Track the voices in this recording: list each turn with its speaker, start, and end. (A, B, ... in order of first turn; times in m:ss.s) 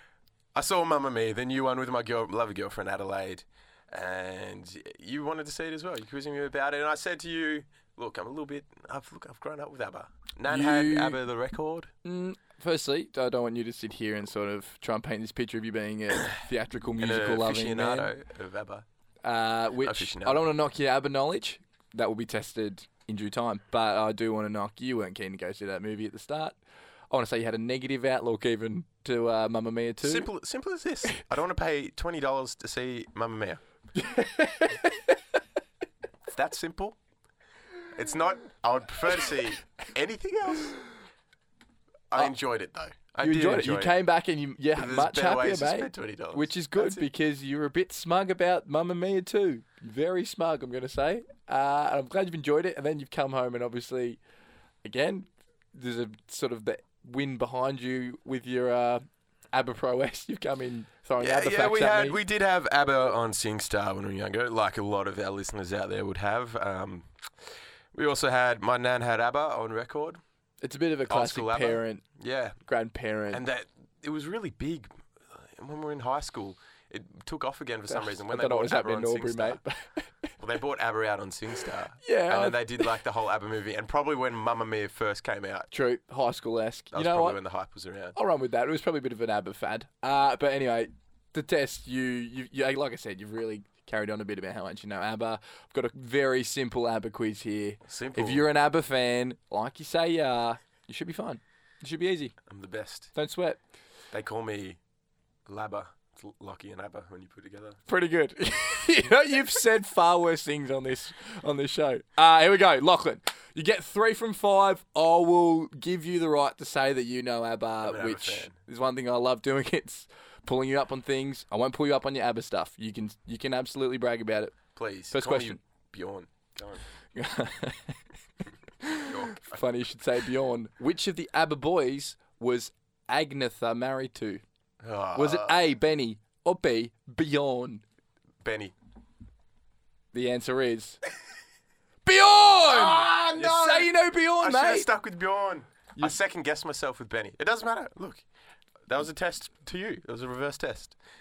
0:00.6-0:11.9 A
0:10.5-0:11.2 B
0:12.0-0:18.1 B
0:17.0-0:18.8 A
0:19.2-0:26.6 B
0:19.8-0:20.5 A
0:27.1-0:30.3 B
0:30.0-0:33.6 A
0:34.0-0:35.2 B
0:36.3-0:37.0 A
0:37.9-0:40.8 A
0:42.1-0:44.0 A
0:43.2-0:54.2 B
0:44.8-0:47.1 A
0:54.8-1:02.2 B
1:01.2-1:10.2 A
1:10.6-1:12.0 B
1:11.1-1:12.6 A
1:12.7-1:13.4 B
1:13.3-1:19.6 A
1:17.9-1:20.3 B
1:20.4-1:25.7 A
1:22.0-1:22.9 B
1:25.7-1:27.4 B
1:26.9-1:28.2 A
1:28.2-1:42.4 B
1:37.9-1:38.4 A
1:42.5-1:43.1 A
1:43.1-1:43.6 B
1:44.1-1:44.8 A
1:45.5-1:47.8 A
1:47.9-2:04.6 B
1:57.8-1:58.5 A
2:04.8-2:06.8 A
2:05.1-2:05.6 B
2:07.2-2:08.0 B
2:08.8-2:14.4 B
2:09.1-2:09.6 A
2:14.8-2:15.6 A
2:15.2-2:17.8 B
2:18.4-2:18.7 A
2:20.1-2:21.0 B
2:22.1-2:24.9 B
2:22.7-2:28.2 A
2:28.9-2:31.0 A